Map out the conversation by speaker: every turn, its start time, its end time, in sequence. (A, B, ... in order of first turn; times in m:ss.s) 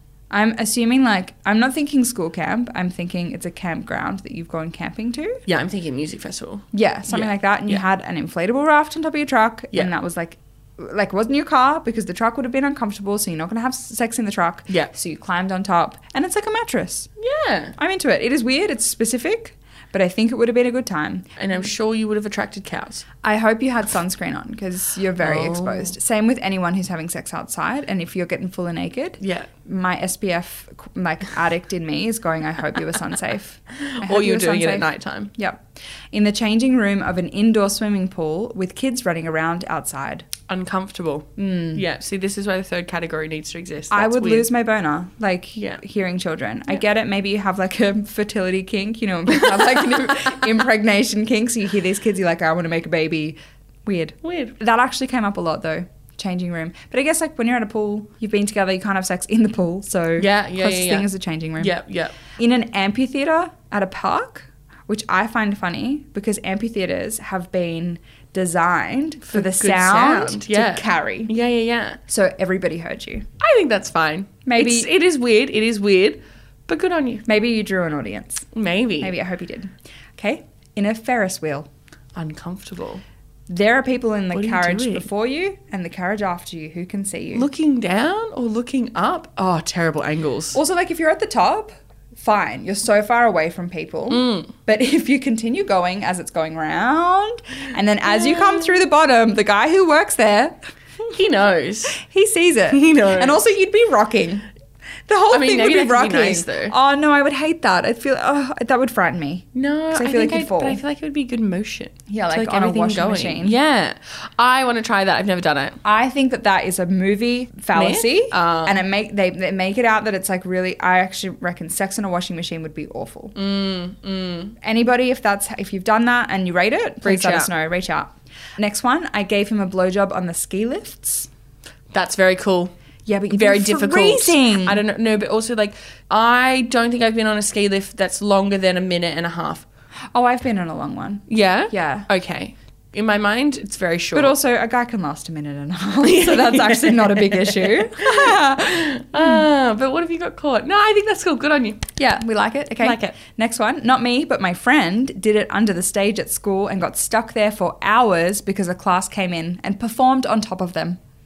0:00.3-0:05.4 A
0:05.4-0:07.8 B
0:06.7-0:17.1 A
0:17.2-0:17.8 B
0:17.8-0:21.3 A
0:21.4-0:23.0 B
0:23.2-0:40.3 A
0:25.2-0:25.9 B
0:29.2-0:29.5 B
0:33.7-0:35.3 B
0:40.5-0:44.5 B
0:41.4-0:41.8 A
0:43.9-1:11.3 A
0:49.3-0:50.4 B
0:54.2-0:54.5 B
1:00.2-1:02.1 B
1:09.2-1:12.0 B
1:12.1-1:13.3 A
1:13.4-1:17.2 B
1:14.4-1:14.9 A
1:17.2-1:18.5 A
1:18.5-1:19.1 B
1:19.0-1:21.7 A
1:22.1-1:23.0 B
1:23.5-1:27.5 A
1:24.3-1:25.1 B
1:27.3-1:30.6 B
1:30.5-1:40.6 A
1:34.1-1:34.5 B
1:38.0-1:38.7 B
1:41.1-1:42.0 B
1:41.9-1:44.4 A
1:42.7-1:43.4 B
1:45.1-1:50.8 A
1:45.3-1:46.7 B
1:49.5-1:55.8 B
1:52.1-1:53.6 A
1:55.8-2:03.4 A
1:57.7-1:58.8 B
2:03.3-2:04.5 B
2:04.6-2:11.3 A
2:07.0-2:07.5 B
2:11.9-2:12.7 B
2:13.0-2:14.8 A
2:13.3-2:19.6 B
2:20.1-2:22.1 A
2:21.3-2:24.4 B
2:24.1-2:29.4 A
2:26.0-2:31.9 B
2:32.0-2:41.0 A
2:32.8-2:33.2 B